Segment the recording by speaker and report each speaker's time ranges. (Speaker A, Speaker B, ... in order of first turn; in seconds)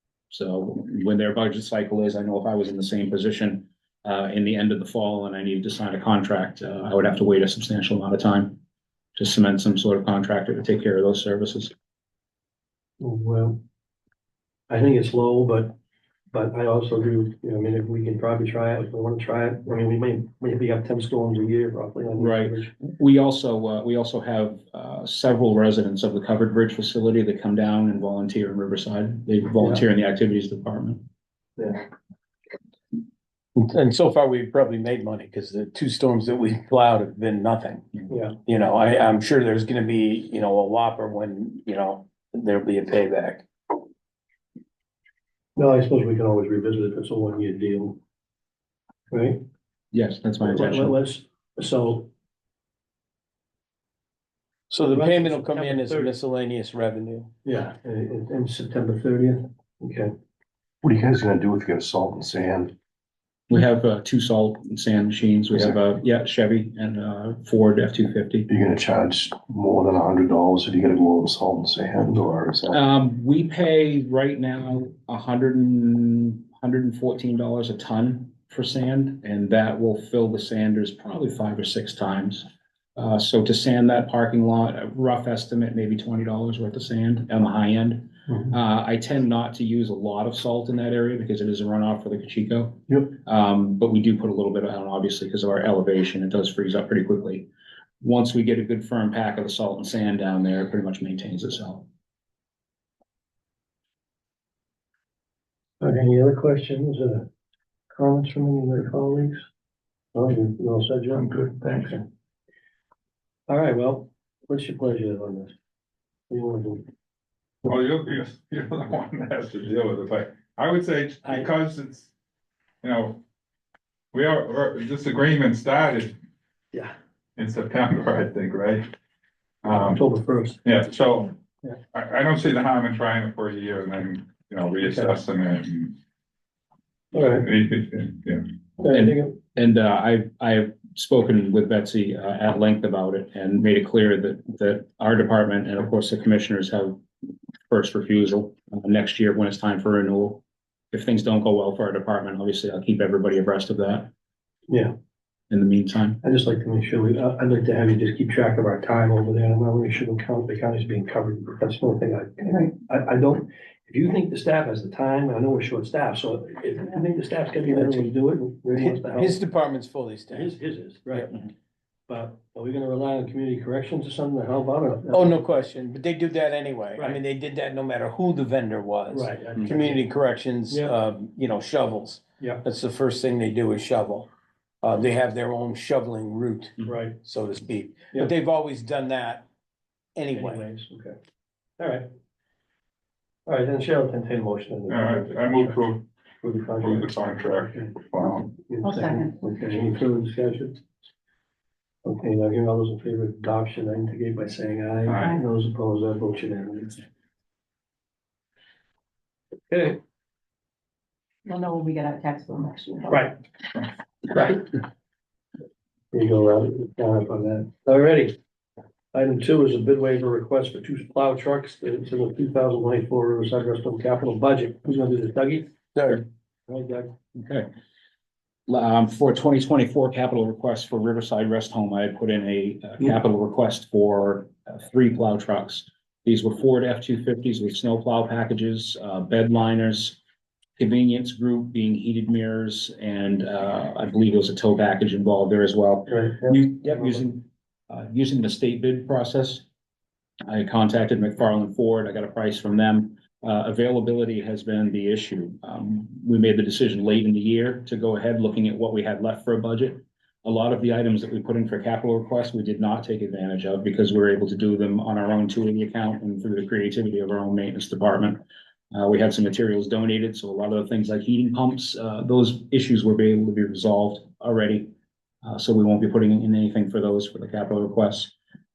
Speaker A: 0.3-8.6, 9.2-11.7, 22.2-31.0, 49.9-51.0, 63.5-68.5, 72.7-97.5, 98.0-101.9, 138.9-147.0, 147.7-154.1, 155.5-156.2, 227.3-227.7, 228.7-240.2, 240.8-249.6, 250.5-268.4, 268.9-274.9, 275.4-278.3
Speaker B: 13.0-13.6, 14.7-15.8, 16.3-22.7, 29.6-29.8, 31.6-31.8, 38.1-38.4, 45.6-48.0, 49.1-49.4, 50.4-52.1, 54.8-56.1, 57.4-60.1, 105.8-107.3, 107.9-109.4, 110.1-112.0, 113.5-115.5, 116.3-116.9, 129.7-130.6, 134.8-135.1, 137.1-137.5, 138.8-139.4, 156.2-169.4, 170.3-171.3, 172.1-175.3, 179.1-180.1, 180.7-181.0, 186.8-187.2, 190.3-191.2, 191.8-192.1, 193.5-195.8, 196.4-200.8, 202.1-207.0, 209.7-210.0, 213.1-213.4, 214.3-214.7, 216.1-218.3, 219.1-227.1, 246.1-247.2
Speaker C: 33.6-43.5, 54.7-57.3, 167.7-168.1, 168.7-170.5, 175.1-184.3, 184.8-189.5, 190.2-190.7, 225.9-226.2
Speaker D: 60.8-62.7, 68.5-72.8
Speaker E: 111.2-111.8, 117.7-122.1, 122.8-123.2, 124.1-126.1, 127.4-128.9, 129.6-130.0, 130.7-131.4, 131.9-135.9, 137.2-138.4, 194.9-196.1, 196.8-198.5
Speaker F: 198.8-199.4, 211.5-213.3